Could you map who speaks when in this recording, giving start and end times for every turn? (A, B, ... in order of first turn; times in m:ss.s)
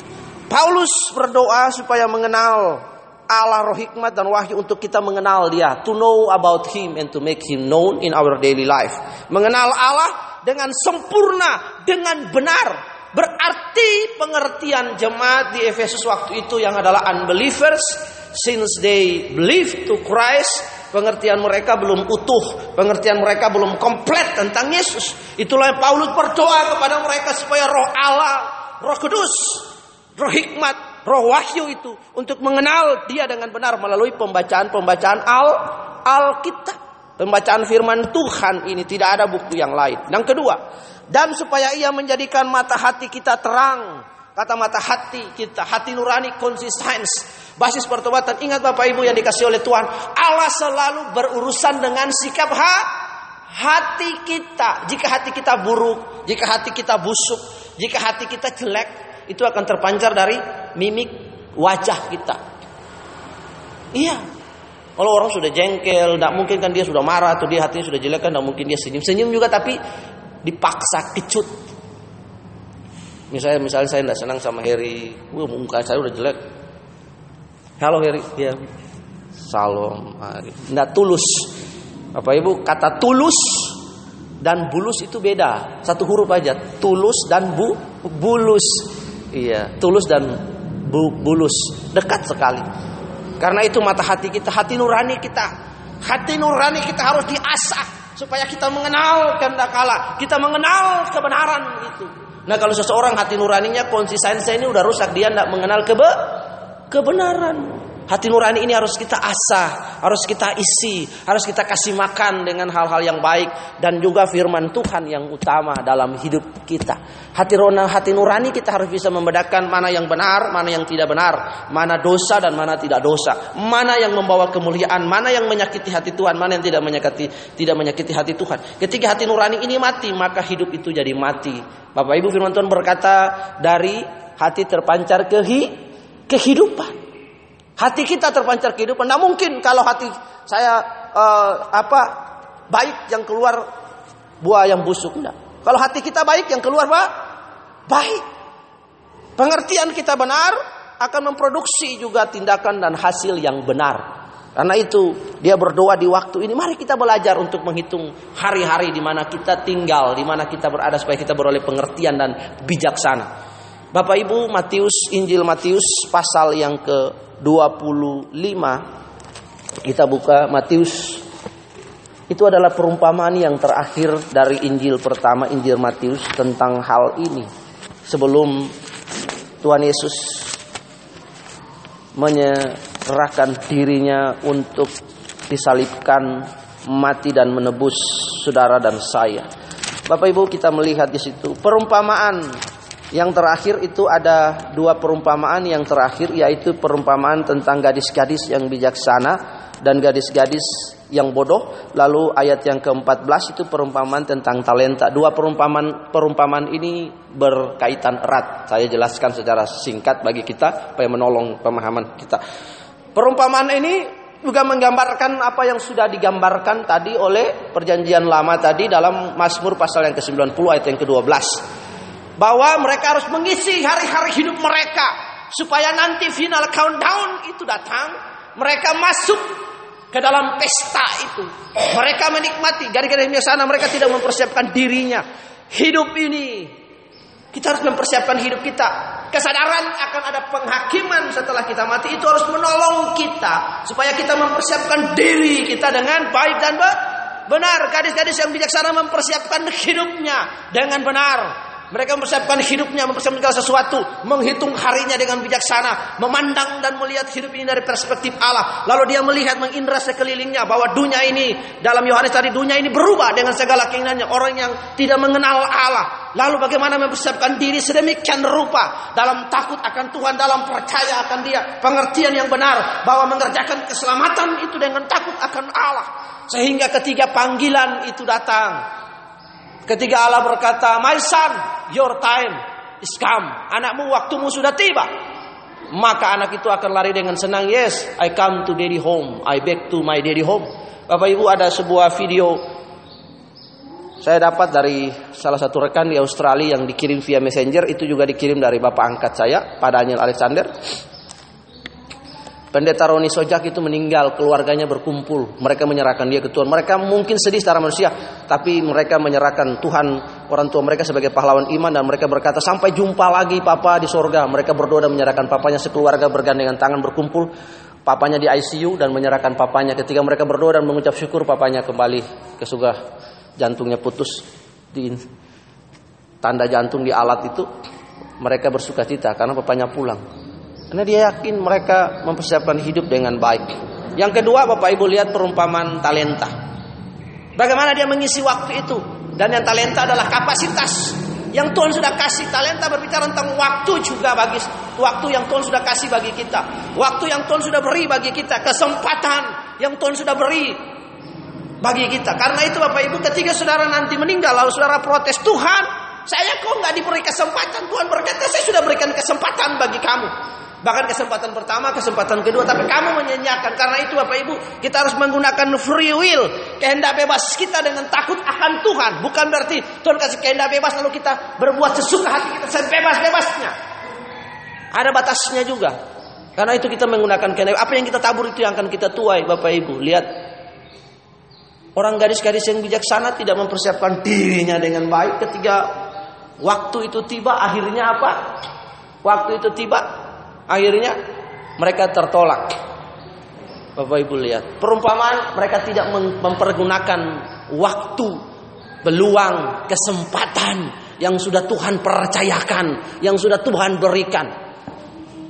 0:00.5-0:40.6 A
0:41.1-0:52.9 A
0:53.5-1:02.4 A
1:03.9-1:04.2 A
1:05.0-1:09.8 A
1:10.4-1:11.5 A
1:13.3-1:16.4 A
1:17.8-1:18.7 A
1:19.4-1:21.5 A
1:22.1-1:23.8 A
1:24.4-1:32.7 A
1:33.4-1:35.5 A
1:36.0-2:15.8 A
2:16.3-2:17.0 A
2:17.8-2:22.2 A
2:22.7-2:23.6 A
2:24.4-2:27.1 A
2:27.9-2:28.3 A
2:29.4-2:43.3 A
2:43.9-2:48.8 A
2:49.9-2:51.2 A
2:52.3-2:57.5 A
2:58.1-2:58.7 A
2:59.6-3:00.6 A
3:02.2-3:04.9 A
3:05.5-3:09.5 A
3:10.1-3:12.6 A
3:13.1-3:32.4 A
3:33.2-3:41.6 A
3:42.4-3:49.5 A
3:50.1-3:56.7 A
3:57.5-4:38.8 A
4:39.9-4:45.1 A
4:45.9-4:52.6 A
4:54.2-5:00.7 A
5:02.7-5:17.5 A
5:18.0-5:23.0 A
5:23.6-5:25.2 A
5:26.4-5:27.7 A
5:28.4-5:30.2 A
5:30.9-5:36.5 A
5:37.6-5:50.8 A
5:51.8-6:00.3 A
6:00.8-6:13.8 A
6:14.9-6:16.0 A
6:16.6-6:20.3 A
6:22.0-6:25.9 A
6:26.6-6:28.4 A
6:29.2-6:30.1 A
6:30.7-6:31.2 A
6:31.8-6:32.7 A
6:34.0-6:38.4 A
6:39.0-6:44.5 A